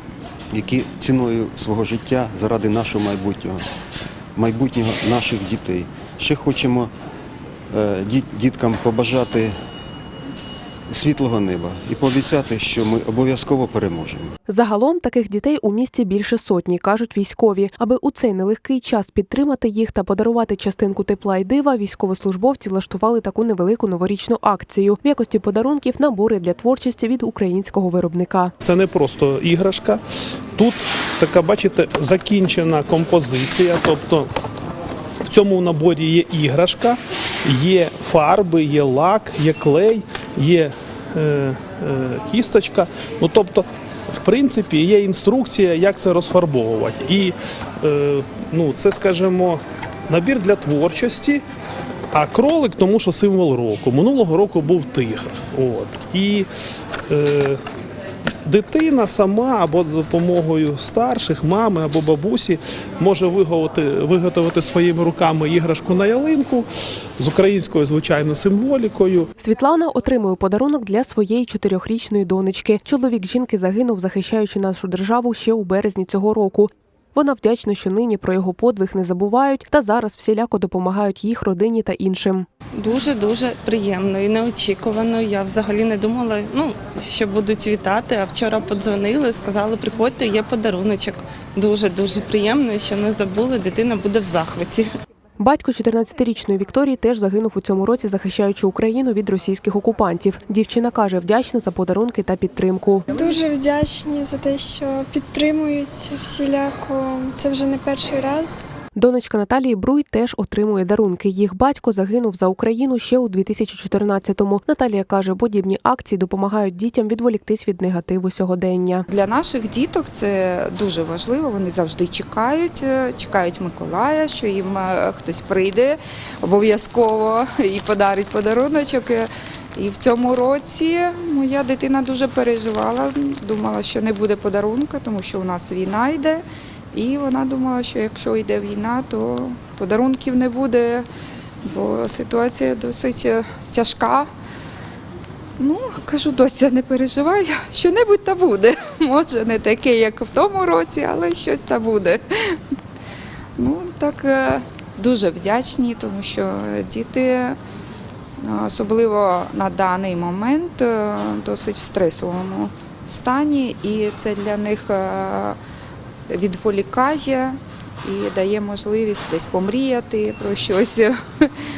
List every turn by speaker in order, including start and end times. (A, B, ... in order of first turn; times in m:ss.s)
0:00.5-0:03.6 A
0:04.4-0:06.9 A
0:07.7-0:09.5 A
0:10.9-0:14.3 A
0:14.5-0:28.5 B
0:28.6-0:30.0 C
0:30.6-0:34.3 C
0:35.2-0:51.4 C
0:52.1-0:56.5 C
0:57.1-0:57.6 C
0:58.4-1:06.7 C
1:07.2-1:09.3 C
1:09.4-1:22.4 B
1:22.8-1:34.9 D
1:35.4-1:43.0 B
1:43.1-1:48.7 E
1:49.0-1:59.0 B
1:59.1-2:21.1 F
2:21.6-2:24.3 F
2:25.6-2:32.6 F
2:33.6-2:37.6 F
2:38.4-2:45.6 F
2:46.3-2:51.5 F